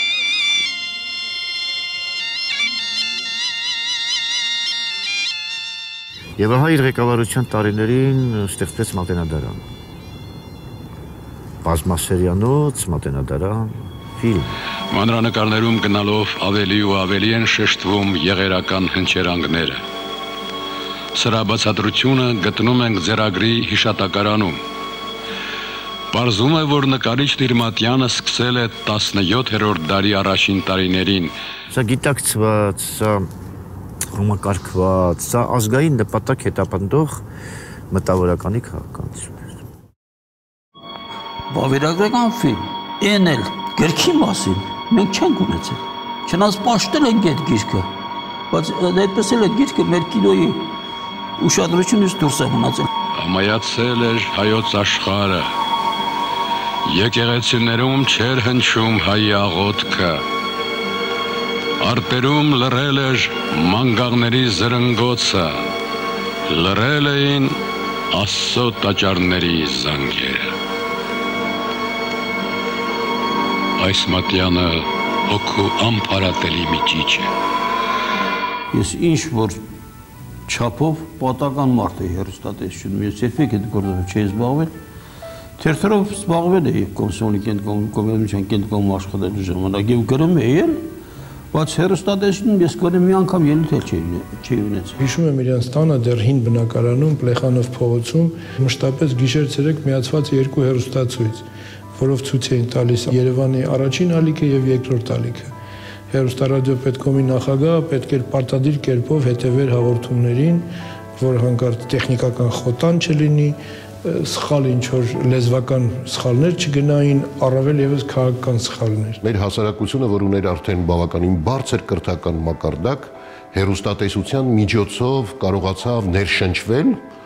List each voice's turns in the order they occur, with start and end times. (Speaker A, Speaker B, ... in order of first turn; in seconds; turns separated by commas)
Speaker A: 6.4-9.6, Speaker A: 11.6-14.5, Speaker B: 14.9-19.8, Speaker B: 21.1-24.6, Speaker B: 26.1-31.3, Speaker A: 31.7-33.3, Speaker A: 34.1-37.2, Speaker A: 37.9-39.5, Speaker C: 41.5-47.9, Speaker C: 48.5-50.7, Speaker C: 51.4-52.9, Speaker B: 53.1-55.5, Speaker B: 56.8-60.2, Speaker B: 61.8-65.7, Speaker B: 66.5-67.6, Speaker B: 68.1-70.5, Speaker B: 73.8-77.3, Speaker C: 78.7-79.6, Speaker C: 80.5-84.7, Speaker C: 85.6-90.9, Speaker C: 91.5-95.0, Speaker D: 95.0-105.5, Speaker D: 106.1-119.2, Speaker E: 119.2-127.0